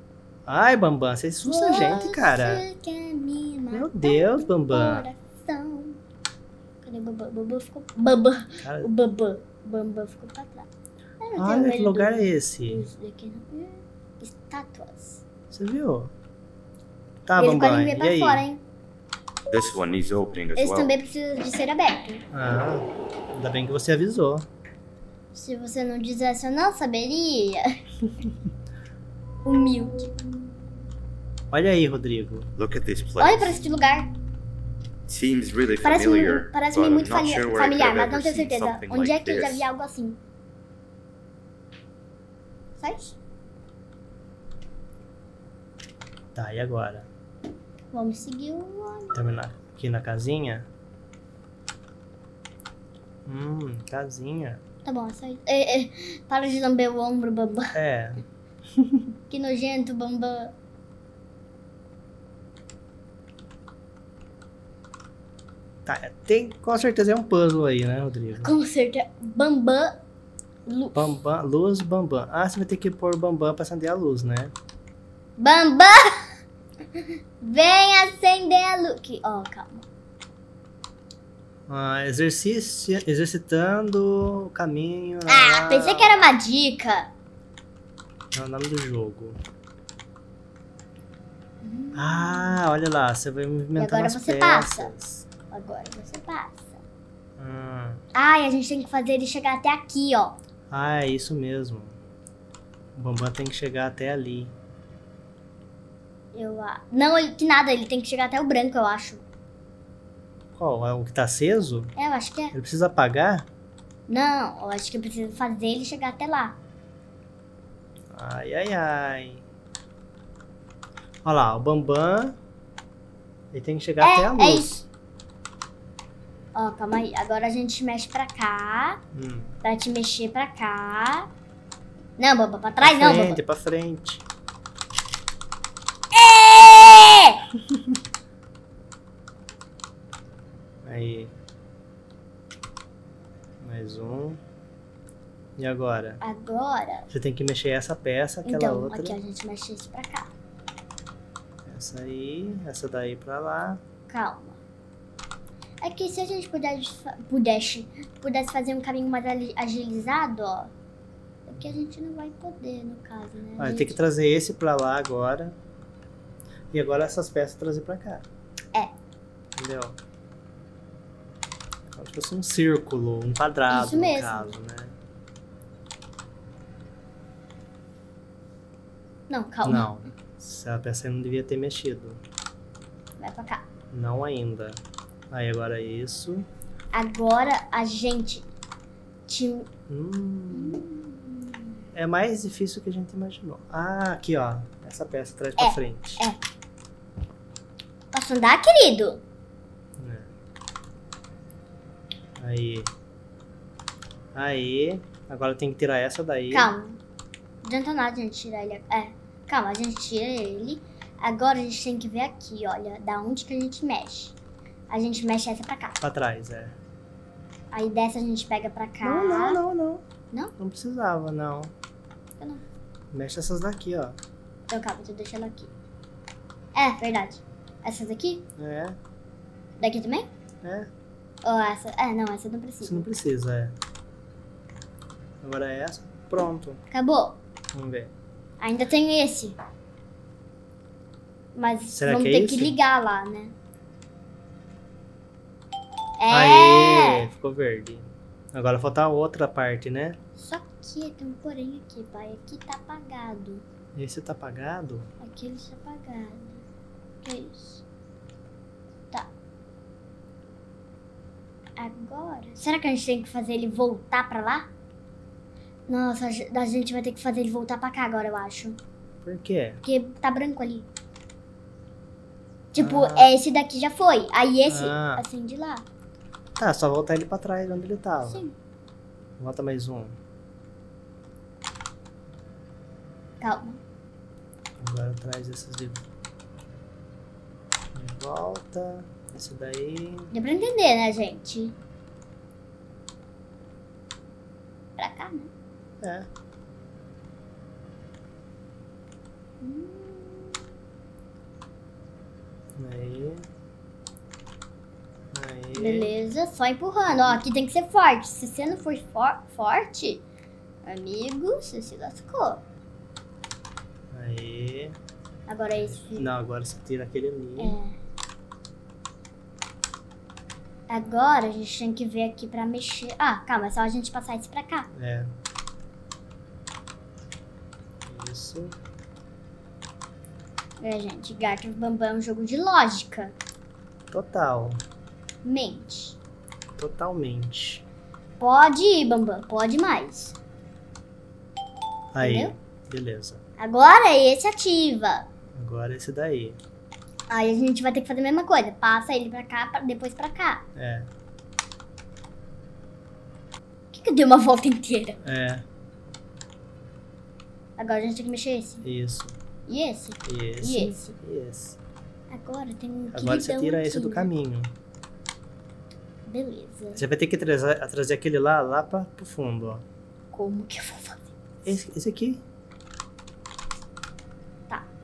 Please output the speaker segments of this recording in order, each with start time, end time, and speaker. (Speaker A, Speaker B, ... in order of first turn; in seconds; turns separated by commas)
Speaker A: 0.5-2.6, Speaker B: 1.4-6.0, Speaker A: 3.7-5.0, Speaker B: 6.8-10.7, Speaker A: 8.6-8.9, Speaker B: 11.2-15.2, Speaker A: 11.3-12.8, Speaker A: 15.5-16.1, Speaker A: 17.3-18.4, Speaker B: 17.4-18.6, Speaker C: 19.5-20.9, Speaker B: 20.6-22.2, Speaker A: 22.3-24.5, Speaker B: 25.3-27.8, Speaker B: 29.4-30.2, Speaker A: 31.5-32.5, Speaker C: 32.5-33.6, Speaker B: 33.2-34.1, Speaker C: 35.1-39.6, Speaker B: 35.8-40.2, Speaker B: 42.8-43.1, Speaker A: 46.3-47.1, Speaker B: 47.9-49.4, Speaker A: 49.1-50.7, Speaker A: 53.2-54.6, Speaker B: 54.8-57.7, Speaker A: 57.7-58.2, Speaker A: 58.8-59.0, Speaker B: 59.3-60.5, Speaker A: 65.8-68.5, Speaker B: 68.4-70.0, Speaker B: 70.7-71.1, Speaker A: 70.9-74.5, Speaker B: 75.4-76.3, Speaker B: 77.0-79.8, Speaker A: 81.7-86.2, Speaker B: 85.3-87.1, Speaker A: 88.3-89.4, Speaker B: 91.6-92.6, Speaker A: 91.9-95.2, Speaker B: 93.8-94.9, Speaker B: 95.5-96.8, Speaker A: 97.4-98.0, Speaker B: 98.1-100.3, Speaker A: 100.7-102.0, Speaker A: 103.0-104.5, Speaker B: 106.3-109.2, Speaker A: 110.5-111.9, Speaker B: 112.0-112.5, Speaker A: 112.5-113.5, Speaker B: 114.1-116.5, Speaker A: 118.1-119.4, Speaker A: 121.2-122.3, Speaker A: 123.5-124.8, Speaker B: 124.0-124.8, Speaker B: 126.5-129.0, Speaker A: 129.1-129.5, Speaker B: 129.6-131.3, Speaker B: 132.2-133.4, Speaker A: 132.8-134.2, Speaker B: 136.1-137.4, Speaker A: 140.8-141.3, Speaker A: 143.6-144.4, Speaker A: 145.6-146.2, Speaker B: 146.2-147.1, Speaker A: 147.1-149.2, Speaker B: 148.4-150.3, Speaker A: 151.7-153.8, Speaker B: 154.1-154.6, Speaker B: 155.8-160.7, Speaker B: 161.4-164.0, Speaker A: 163.6-165.6, Speaker A: 166.7-168.2, Speaker A: 169.6-170.0, Speaker A: 171.9-174.9, Speaker B: 173.7-174.5, Speaker B: 179.3-179.9, Speaker A: 179.6-182.2, Speaker B: 183.2-183.6, Speaker A: 183.9-184.8, Speaker A: 185.3-186.5, Speaker B: 186.9-188.4, Speaker B: 189.3-189.7, Speaker A: 189.9-190.8, Speaker B: 190.5-191.8, Speaker A: 191.9-196.2, Speaker B: 195.6-196.4, Speaker B: 198.1-199.2, Speaker A: 200.0-200.3, Speaker A: 202.4-202.9, Speaker A: 204.3-206.7, Speaker B: 206.5-207.0, Speaker B: 207.6-214.3, Speaker B: 214.9-216.0, Speaker A: 216.0-216.7, Speaker B: 217.7-219.6, Speaker A: 219.0-220.0, Speaker A: 220.6-221.7, Speaker A: 223.1-224.2, Speaker B: 224.7-225.7, Speaker B: 226.7-228.4, Speaker A: 228.6-229.0, Speaker B: 229.8-230.3, Speaker A: 230.6-230.9, Speaker B: 231.4-233.0, Speaker A: 232.8-233.7, Speaker A: 235.4-236.8, Speaker B: 236.9-237.4, Speaker A: 237.7-238.1, Speaker B: 238.6-239.5, Speaker B: 241.5-243.5, Speaker A: 241.9-242.7, Speaker B: 246.2-247.2, Speaker A: 246.3-250.2, Speaker B: 250.4-253.6, Speaker A: 253.9-255.1, Speaker B: 255.2-256.6, Speaker B: 257.2-257.8, Speaker B: 261.8-264.6, Speaker B: 265.9-268.8, Speaker A: 269.2-269.8, Speaker B: 269.8-270.9, Speaker B: 272.7-275.8, Speaker A: 272.8-273.3, Speaker A: 274.7-275.2, Speaker A: 276.6-278.4, Speaker B: 278.2-278.5, Speaker A: 279.4-280.1, Speaker B: 283.4-283.8, Speaker A: 284.8-286.0, Speaker A: 287.9-290.3, Speaker B: 290.3-291.7, Speaker B: 295.0-295.5, Speaker A: 296.0-296.3, Speaker B: 299.6-300.6, Speaker A: 302.8-303.4, Speaker A: 305.3-306.1, Speaker B: 305.8-310.2, Speaker A: 307.1-307.4, Speaker B: 310.8-312.6, Speaker A: 314.1-314.9, Speaker B: 315.5-316.3, Speaker A: 315.8-317.8, Speaker B: 317.6-317.9, Speaker B: 320.9-324.9, Speaker A: 324.9-325.3, Speaker A: 328.1-328.7, Speaker B: 330.8-333.3, Speaker A: 334.1-334.8, Speaker B: 335.4-336.2, Speaker A: 336.8-337.8, Speaker B: 338.4-340.3, Speaker A: 342.1-343.4, Speaker B: 342.2-342.5, Speaker B: 343.6-345.2, Speaker A: 345.6-346.6, Speaker B: 347.3-350.6, Speaker A: 350.8-351.1, Speaker B: 353.9-355.2, Speaker A: 355.2-355.6, Speaker B: 357.8-358.8, Speaker A: 358.8-359.3, Speaker B: 359.7-361.1, Speaker A: 360.2-361.8, Speaker B: 362.3-364.3, Speaker A: 363.1-364.7, Speaker B: 366.3-367.0, Speaker A: 366.9-369.8, Speaker B: 370.3-371.2, Speaker A: 371.6-372.4